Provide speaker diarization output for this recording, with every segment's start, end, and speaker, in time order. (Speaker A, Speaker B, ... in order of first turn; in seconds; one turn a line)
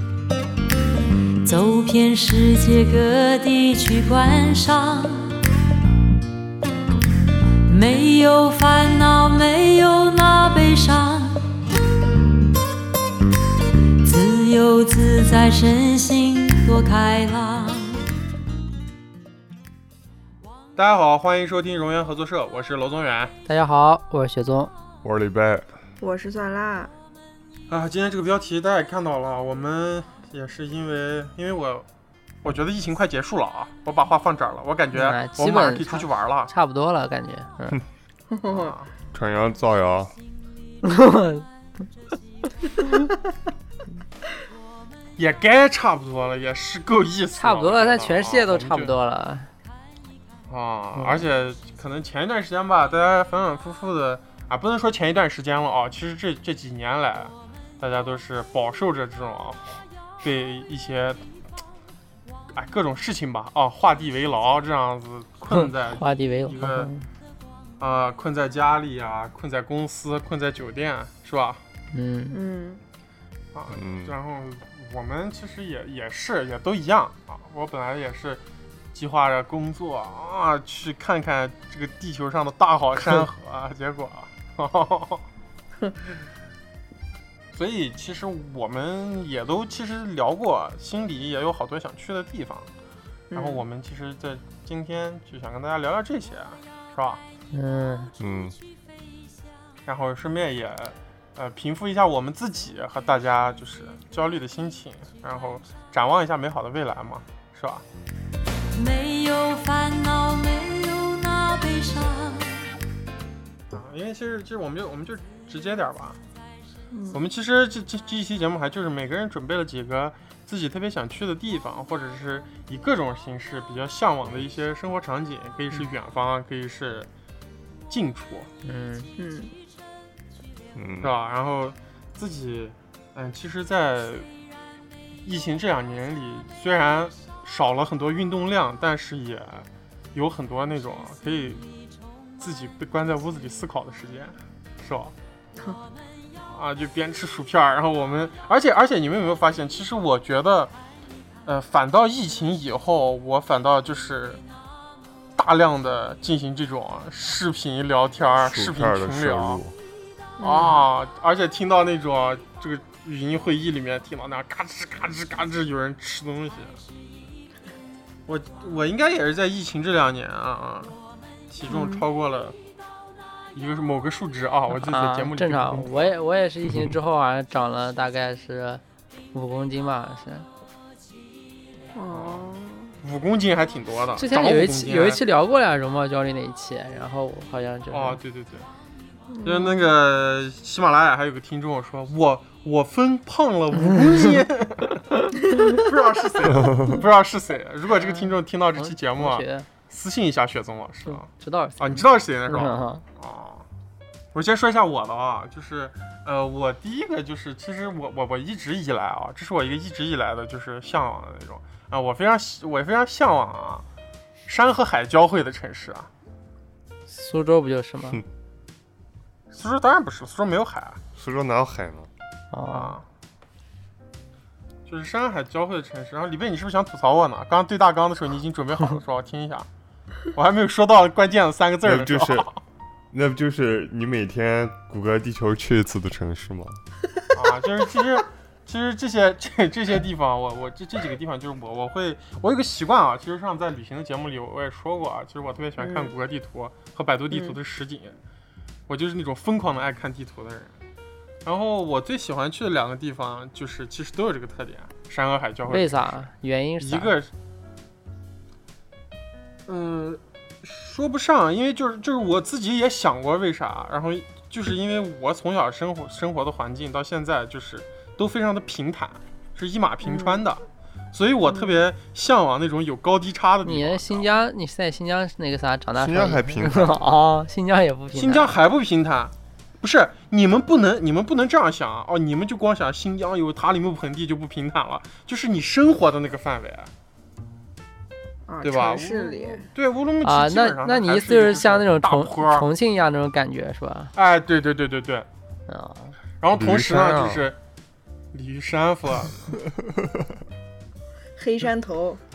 Speaker A: 1.4-5.3
Speaker A: 7.7-11.4
Speaker A: 14.0-18.0
Speaker B: 20.8-23.3
Speaker C: 23.4-24.7
Speaker D: 25.0-25.7
Speaker E: 26.0-26.9
Speaker B: 27.7-31.9
Speaker B: 32.4-36.5
Speaker C: 34.9-37.8
Speaker E: 38.3-38.7
Speaker B: 38.5-38.9
Speaker D: 39.1-40.1
Speaker C: 40.8-41.5
Speaker B: 45.2-48.9
Speaker C: 47.4-49.5
Speaker B: 50.5-61.2
Speaker C: 51.0-51.2
Speaker B: 62.5-66.9
Speaker C: 65.5-67.0
Speaker B: 67.8-71.6
Speaker C: 71.9-72.4
Speaker E: 72.3-72.8
Speaker B: 73.5-78.4
Speaker D: 73.7-74.1
Speaker B: 78.9-85.2
Speaker B: 87.5-92.7
Speaker E: 93.3-93.6
Speaker B: 93.3-97.2
Speaker C: 97.5-98.1
Speaker D: 98.2-98.6
Speaker B: 99.8-107.8
Speaker A: 108.7-112.7
Speaker B: 113.7-116.2
Speaker E: 116.9-117.2
Speaker B: 117.1-127.1
Speaker B: 127.9-128.5
Speaker C: 128.6-129.1
Speaker E: 129.2-129.5
Speaker D: 130.7-131.1
Speaker B: 131.0-134.3
Speaker B: 135.2-141.6
Speaker B: 142.4-145.1
Speaker B: 146.5-150.7
Speaker B: 151.4-154.4
Speaker B: 155.4-159.6
Speaker D: 158.4-159.8
Speaker E: 160.4-160.9
Speaker B: 160.4-166.8
Speaker B: 168.3-171.0
Speaker B: 171.5-172.6
Speaker E: 171.7-172.1
Speaker B: 173.5-176.1
Speaker C: 174.7-178.8
Speaker C: 179.3-180.5
Speaker E: 181.9-182.9
Speaker B: 182.1-182.5
Speaker B: 183.0-185.2
Speaker C: 184.2-188.2
Speaker B: 187.9-188.7
Speaker E: 189.3-189.9
Speaker B: 189.4-201.3
Speaker C: 193.9-194.2
Speaker C: 198.8-199.7
Speaker C: 201.1-203.0
Speaker B: 201.8-203.6
Speaker B: 204.3-213.8
Speaker B: 214.4-216.1
Speaker C: 217.1-218.2
Speaker B: 219.5-221.0
Speaker D: 221.1-222.1
Speaker C: 222.5-222.9
Speaker B: 222.7-223.0
Speaker B: 224.8-229.7
Speaker B: 230.3-232.6
Speaker D: 231.8-232.5
Speaker D: 233.1-236.8
Speaker B: 237.3-248.1
Speaker E: 245.8-246.1
Speaker E: 247.3-247.6
Speaker B: 248.9-250.7
Speaker B: 251.4-256.1
Speaker C: 255.7-257.1
Speaker B: 256.8-257.3
Speaker B: 259.7-274.3
Speaker E: 270.0-270.4
Speaker E: 271.4-271.8
Speaker C: 273.6-278.6
Speaker D: 275.9-277.0
Speaker B: 278.1-286.9
Speaker E: 288.5-289.7
Speaker B: 288.6-292.7
Speaker C: 290.2-294.1
Speaker B: 294.1-295.3
Speaker C: 295.7-296.1
Speaker B: 296.4-297.6
Speaker D: 296.5-297.5
Speaker B: 298.3-299.6
Speaker D: 299.8-300.1
Speaker E: 301.4-302.2